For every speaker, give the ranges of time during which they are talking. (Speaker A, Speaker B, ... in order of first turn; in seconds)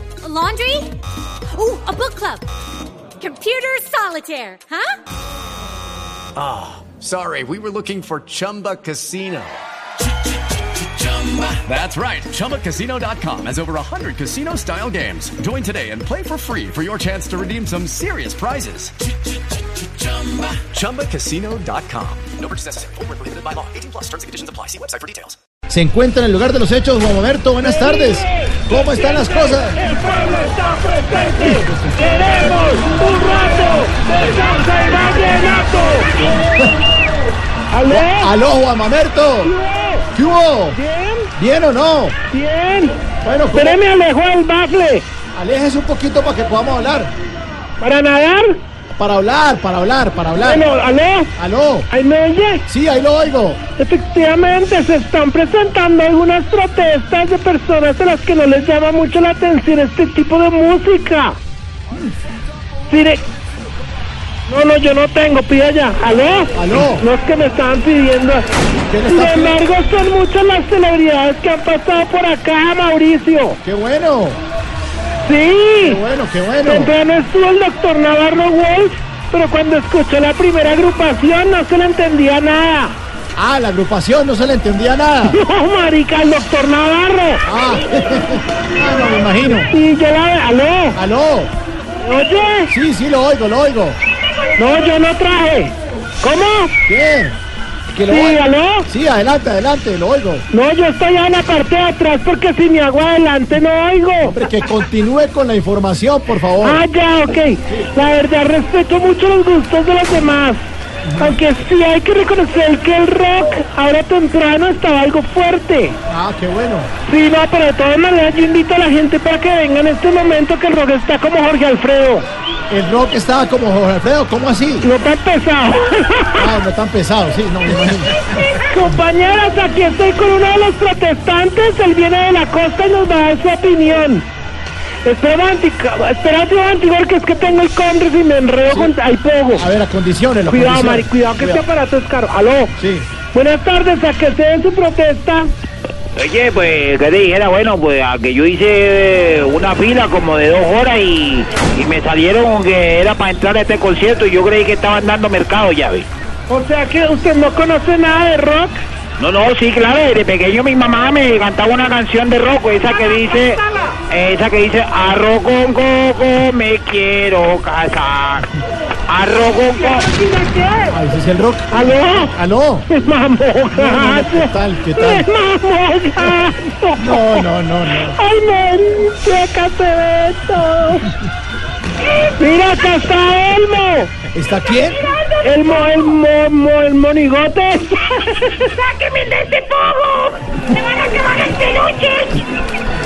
Speaker A: 0.2-0.9, 1.5-2.5, 3.2-5.0
Speaker B: 6.3-9.6, 10.8-18.9, 19.8-25.4
Speaker C: 25.7-29.8, 36.3-36.7, 37.9-39.5, 40.1-40.8, 41.4-42.2, 43.2-43.8, 45.3-47.1, 48.9-50.6, 51.4-51.9, 52.7-53.6, 66.5-67.0, 68.9-69.6, 73.6-74.4, 75.8-76.9, 83.3-85.4, 87.4-89.7, 90.9-91.5, 92.7-94.0, 96.8-97.4, 97.9-100.5, 104.2-106.8, 111.0-111.4, 116.1-116.9, 122.7-124.9, 126.3-128.4, 138.7-138.9, 139.5-141.6, 142.8-143.1, 170.9-172.9, 173.7-175.3, 177.0-178.2, 184.3-185.1
Speaker D: 27.6-36.3, 37.7-38.3, 39.4-40.1, 40.7-41.3, 42.3-43.0, 43.5-45.0, 47.8-48.6, 50.4-51.3, 51.9-52.6, 53.8-61.4, 62.9-63.2, 64.5-68.5, 69.0-73.6, 75.2-76.0, 76.6-83.0, 85.2-87.4, 89.6-91.0, 92.0-92.7, 94.5-96.7, 98.1-98.9, 100.5-104.3, 106.6-110.7, 111.2-116.0, 117.0-122.3, 124.8-126.5, 128.6-134.2, 135.0-139.7, 140.5-142.7, 143.3-145.5, 156.5-158.8, 162.8-164.0, 169.7-171.0, 171.7-172.3, 172.9-177.5, 178.1-181.1, 182.4-184.1, 185.4-188.5
Speaker E: 94.2-94.5, 182.0-182.3, 184.9-185.7, 188.2-192.5
Speaker F: 146.1-156.1, 159.2-170.1